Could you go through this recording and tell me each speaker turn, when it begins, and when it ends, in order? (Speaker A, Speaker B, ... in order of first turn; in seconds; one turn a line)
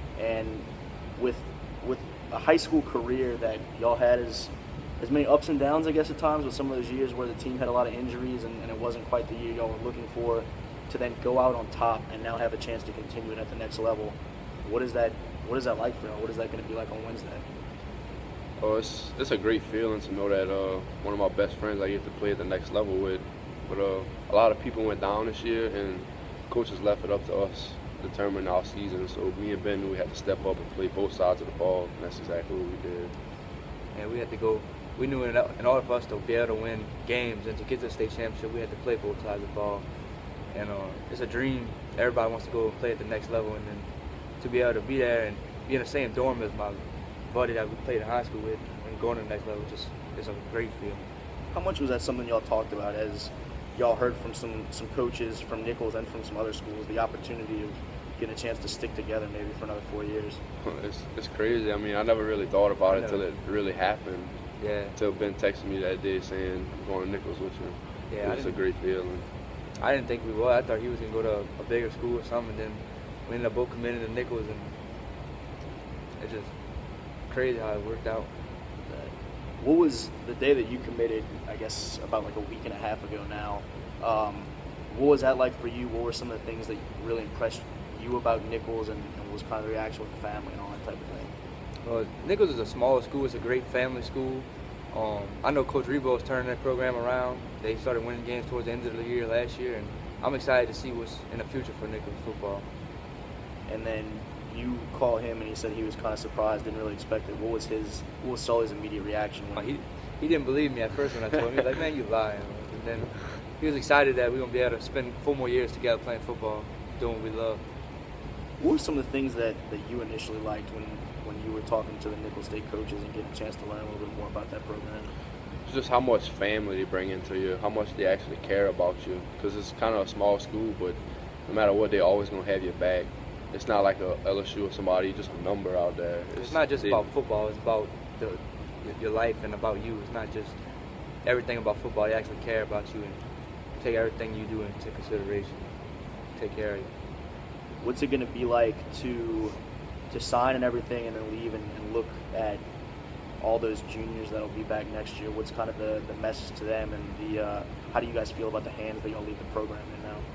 Speaker A: 0.2-0.7
Speaker A: 1.2-17.4
Speaker B: 18.6-33.1
Speaker C: 34.0-39.9
Speaker C: 40.5-43.9
Speaker C: 44.4-51.0
Speaker A: 51.5-60.4
Speaker B: 60.6-64.4
Speaker C: 62.9-63.2
Speaker C: 64.6-65.0
Speaker B: 65.0-69.2
Speaker C: 68.1-68.6
Speaker C: 69.8-74.7
Speaker C: 76.2-76.5
Speaker C: 77.3-78.3
Speaker A: 78.9-91.3
Speaker C: 91.8-102.7
Speaker A: 103.7-109.8
Speaker C: 109.6-117.6
Speaker A: 118.6-125.1
Speaker B: 125.7-137.1
Speaker C: 136.4-140.6
Speaker C: 141.2-143.2
Speaker C: 143.8-145.7
Speaker C: 146.4-146.9
Speaker A: 147.8-149.6
Speaker A: 150.1-152.6
Speaker A: 153.4-160.2